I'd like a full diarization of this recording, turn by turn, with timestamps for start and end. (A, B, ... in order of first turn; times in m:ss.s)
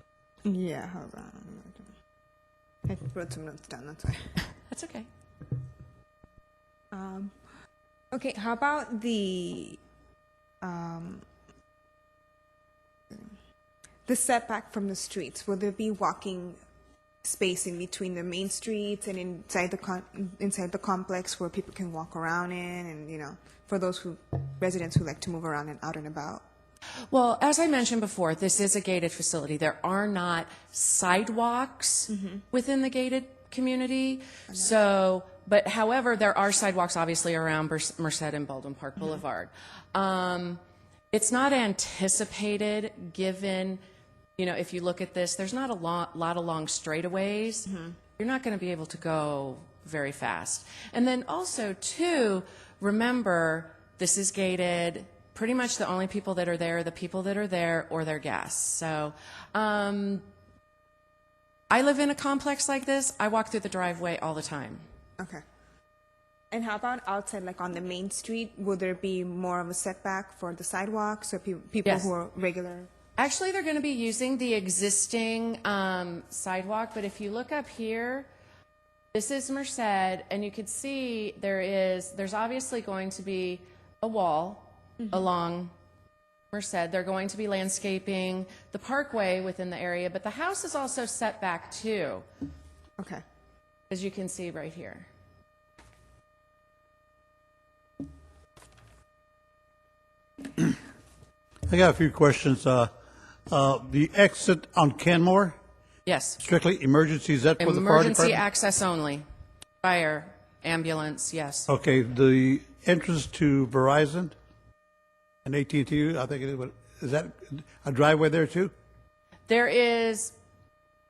0:00.4-0:01.8 A
0:02.9-0:04.3 A
0:04.7-0:05.1 B
0:06.9-0:07.3 A
0:08.1-0:09.8 A
0:10.6-0:11.2 A
0:14.1-0:16.6 A
0:17.2-0:26.4 A
0:27.1-0:40.6 B
0:32.1-0:32.4 A
0:41.1-0:43.8 B
0:44.4-1:00.2 B
1:01.7-1:04.8 B
1:06.5-1:12.9 A
1:11.8-1:12.1 B
1:13.2-1:18.3 B
1:19.1-1:25.7 B
1:26.5-1:32.2 B
1:33.0-1:33.2 A
1:33.9-1:35.1 B
1:41.7-1:42.9 C
1:43.5-1:45.6 C
1:46.1-1:46.4 B
1:46.4-1:48.4 C
1:47.6-1:49.2 B
1:49.8-1:51.7 B
1:51.7-1:54.3 C
1:55.4-1:58.7 C
1:59.5-2:00.4 B